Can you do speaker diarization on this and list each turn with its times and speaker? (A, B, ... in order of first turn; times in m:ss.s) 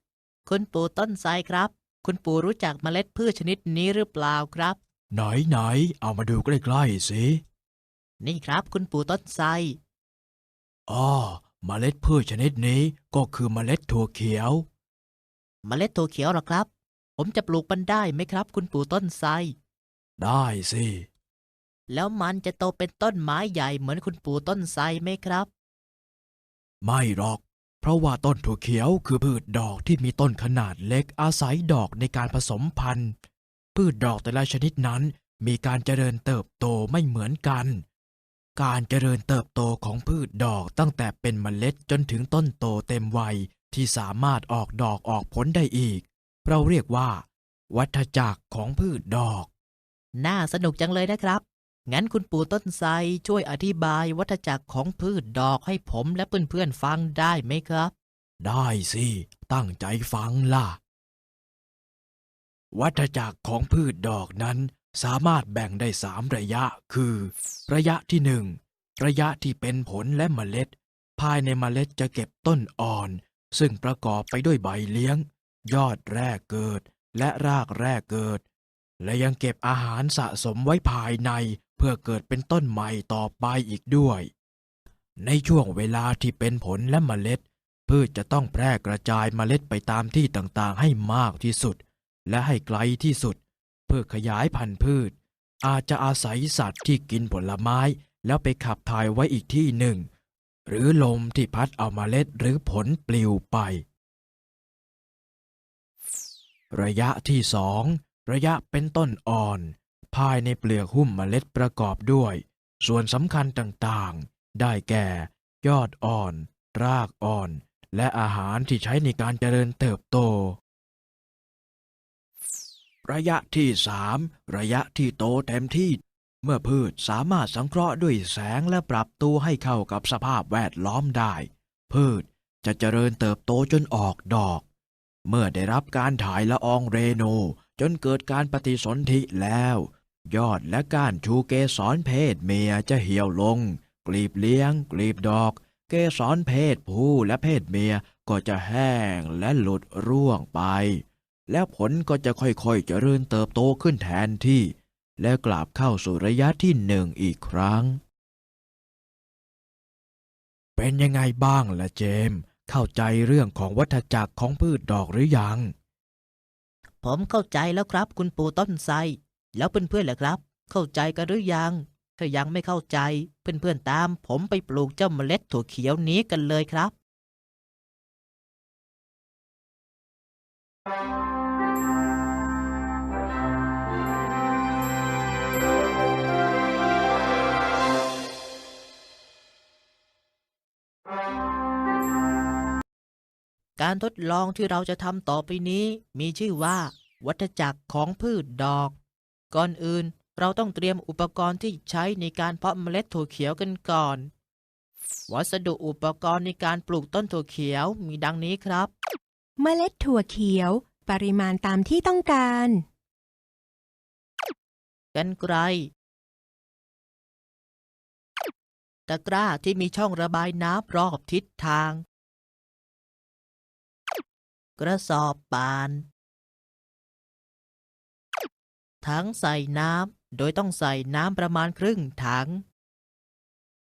0:00.5-0:04.8 A
0:05.1-0:07.4 B
0:08.2-0:09.8 A
0:10.9-0:14.7 B
0:15.6-0:19.5 A
0:20.2-0:21.1 B
0:21.9-0:25.5 A
0:26.8-0:33.1 B
0:33.8-0:37.8 B
0:38.6-0:49.5 B
0:50.2-0:57.9 A
0:58.4-1:00.8 B
1:02.7-1:18.4 B
1:19.0-1:24.3 B
1:25.2-1:40.1 B
1:40.7-1:43.8 B
1:46.7-2:00.6 B
2:03.1-2:14.6 B
2:15.3-2:38.0 B
2:40.8-2:45.7 B
2:47.0-2:56.9 A
3:13.8-3:19.0 A
3:19.5-3:24.3 A
3:25.3-3:28.9 A
3:29.6-3:32.8 C
3:35.1-3:35.9 A
3:39.1-3:42.0 A
3:44.8-3:46.0 A
3:49.0-3:52.6 A